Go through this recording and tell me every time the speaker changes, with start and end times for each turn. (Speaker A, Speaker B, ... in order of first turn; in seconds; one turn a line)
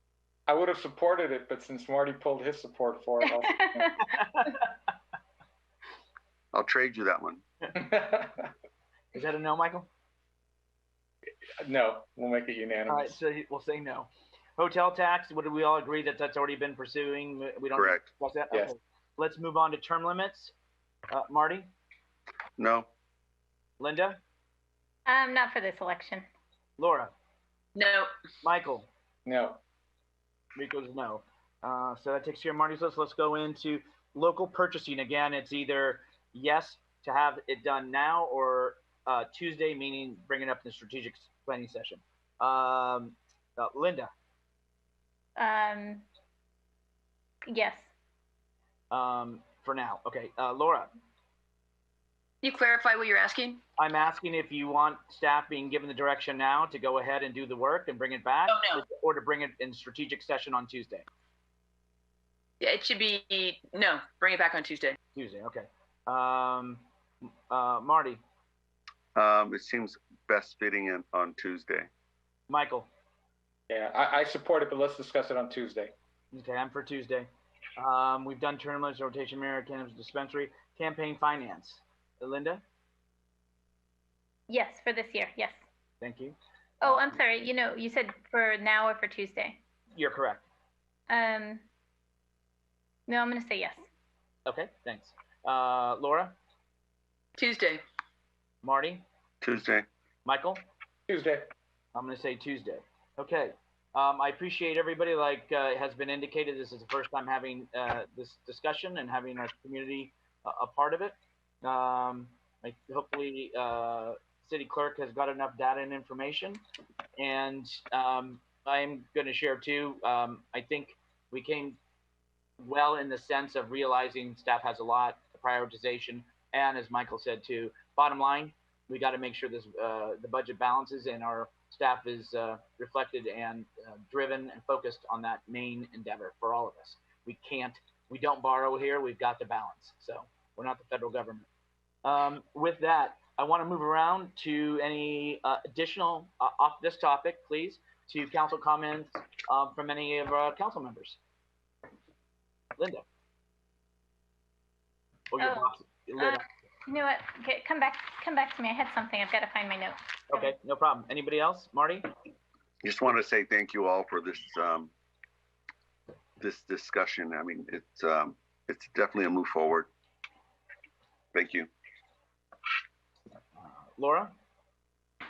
Speaker A: 0.5-4.1
Speaker B: 4.0-4.7
Speaker C: 6.5-7.4
Speaker A: 7.7-8.5
Speaker B: 9.1-9.9
Speaker A: 11.6-13.2
Speaker B: 12.9-20.5
Speaker C: 17.7-18.1
Speaker B: 21.1-21.7
Speaker C: 22.6-22.9
Speaker B: 23.8-24.2
Speaker D: 25.1-26.3
Speaker B: 26.8-27.1
Speaker E: 27.8-28.1
Speaker B: 28.4-28.9
Speaker A: 29.3-29.6
Speaker B: 30.6-44.1
Speaker D: 45.4-46.0
Speaker D: 47.5-47.9
Speaker B: 48.9-50.9
Speaker E: 52.4-53.6
Speaker B: 53.8-61.1
Speaker E: 58.5-58.8
Speaker E: 62.6-65.0
Speaker B: 65.2-66.8
Speaker B: 67.5-68.2
Speaker C: 69.2-71.9
Speaker B: 72.5-72.9
Speaker A: 73.7-75.9
Speaker B: 76.3-82.6
Speaker D: 84.5-85.6
Speaker B: 86.0-87.2
Speaker D: 86.8-89.6
Speaker B: 90.0-90.5
Speaker D: 91.1-91.6
Speaker D: 93.1-93.8
Speaker B: 94.5-96.3
Speaker E: 97.4-97.8
Speaker B: 98.6-99.0
Speaker C: 99.4-99.9
Speaker B: 100.3-100.6
Speaker A: 101.1-101.5
Speaker B: 101.9-116.6
Speaker B: 117.2-121.8
Speaker B: 122.6-141.5
Speaker B: 142.1-151.2
Speaker B: 152.8-153.1
Speaker B: 155.3-156.4
Speaker D: 156.9-160.5
Speaker B: 160.3-162.1
Speaker C: 162.8-164.9
Speaker C: 166.4-169.9
Speaker C: 171.3-171.7
Speaker B: 173.6-174.3